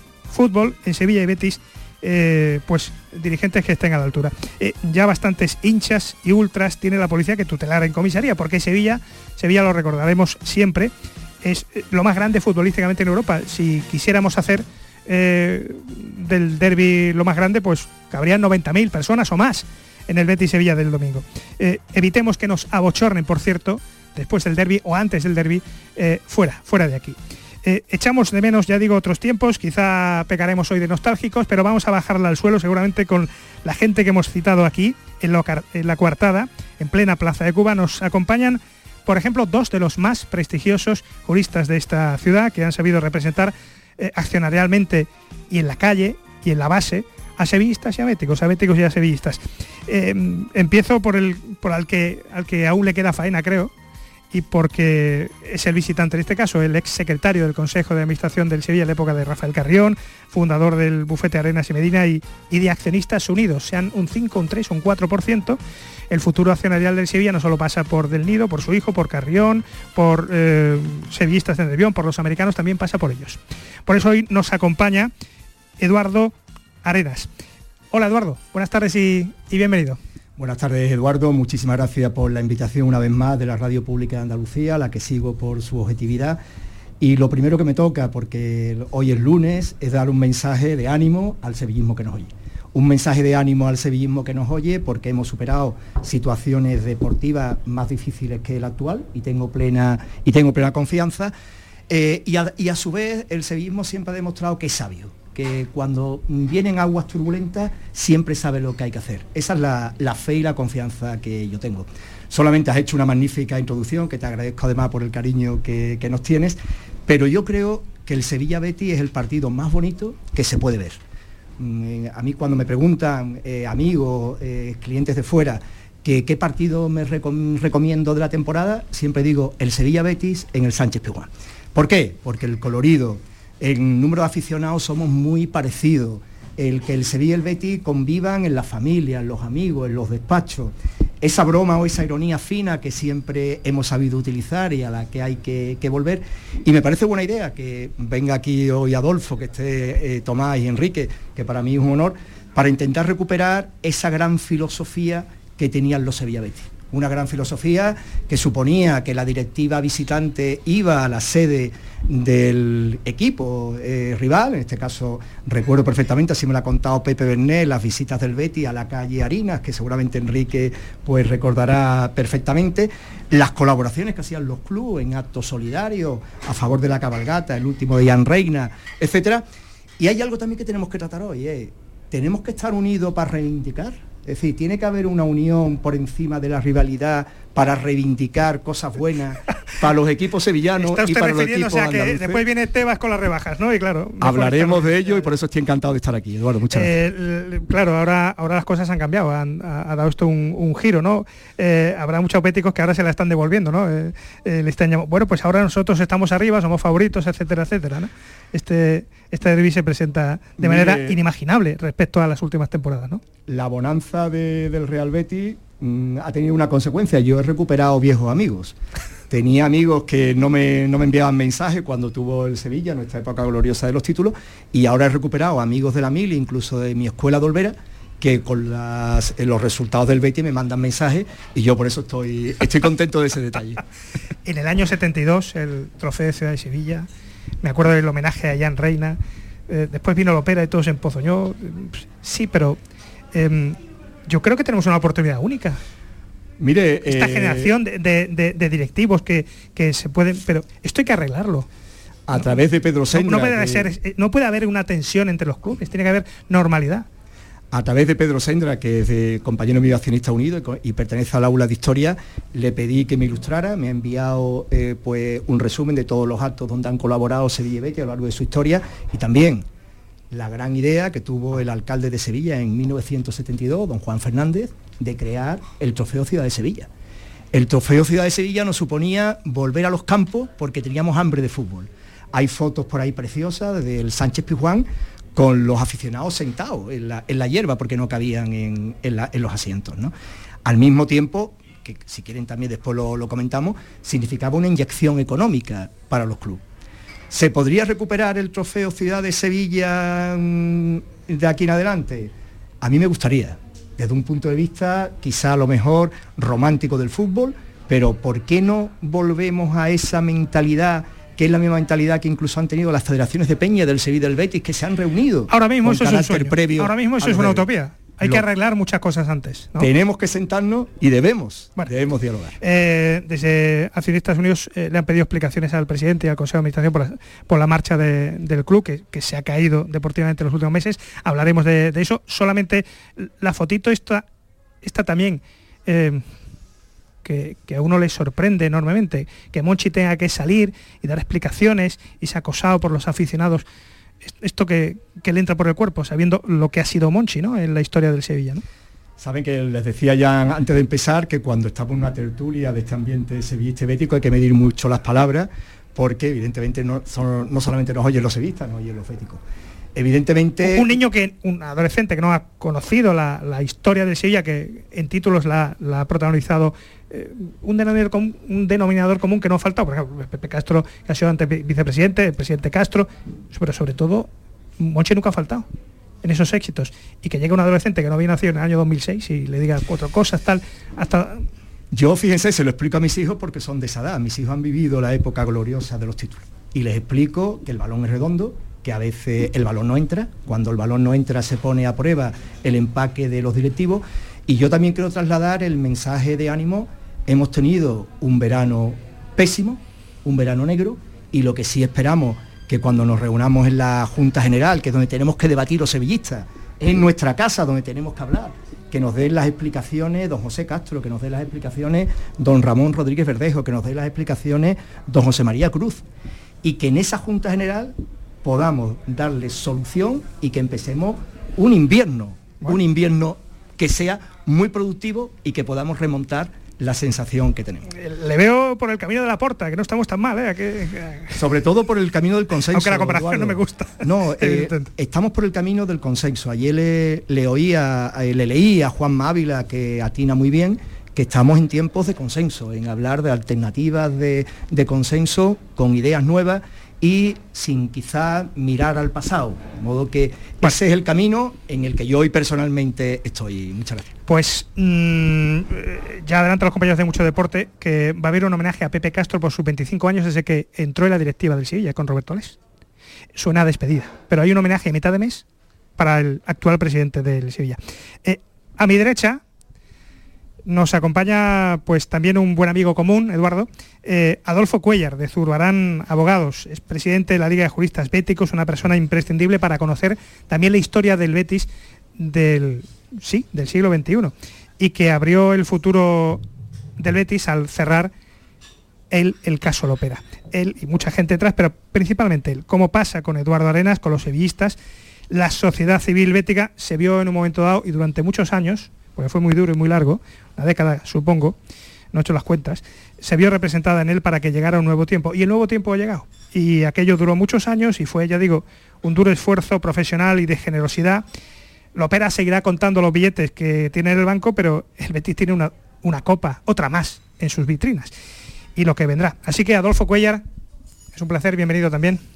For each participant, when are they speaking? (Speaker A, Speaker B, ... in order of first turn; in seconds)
Speaker A: 0.3-10.9, 11.4-53.7, 54.3-65.6, 66.1-75.1, 75.8-77.3, 77.9-80.0, 190.8-195.3, 196.7-213.2, 234.4-237.1, 237.6-239.2, 239.7-242.8, 243.3-243.8, 244.3-245.8, 247.1-251.7, 253.1-257.1, 315.5-319.9, 322.6-334.2, 334.8-336.2, 337.2-343.6, 344.2-348.6, 360.6-375.7, 376.2-381.4, 427.9-431.4, 432.7-434.9, 454.3-462.6, 463.4-465.4, 466.0-469.4, 470.7-486.4, 487.0-488.1, 489.1-494.8, 495.3-501.6, 502.1-511.2, 511.9-518.1, 518.8-520.4, 521.1-522.2
Speaker B: 80.4-86.4, 87.0-101.3, 101.9-121.0, 121.6-179.4, 180.0-192.4, 194.2-196.9, 210.6-211.2, 213.5-218.8, 219.3-233.8, 246.6-247.7, 252.3-253.9, 257.7-269.7, 270.3-276.9, 277.5-290.1, 290.6-296.6, 297.3-317.7, 319.8-322.6, 349.2-359.4, 359.9-360.9, 381.9-416.0, 416.6-427.9, 431.4-454.1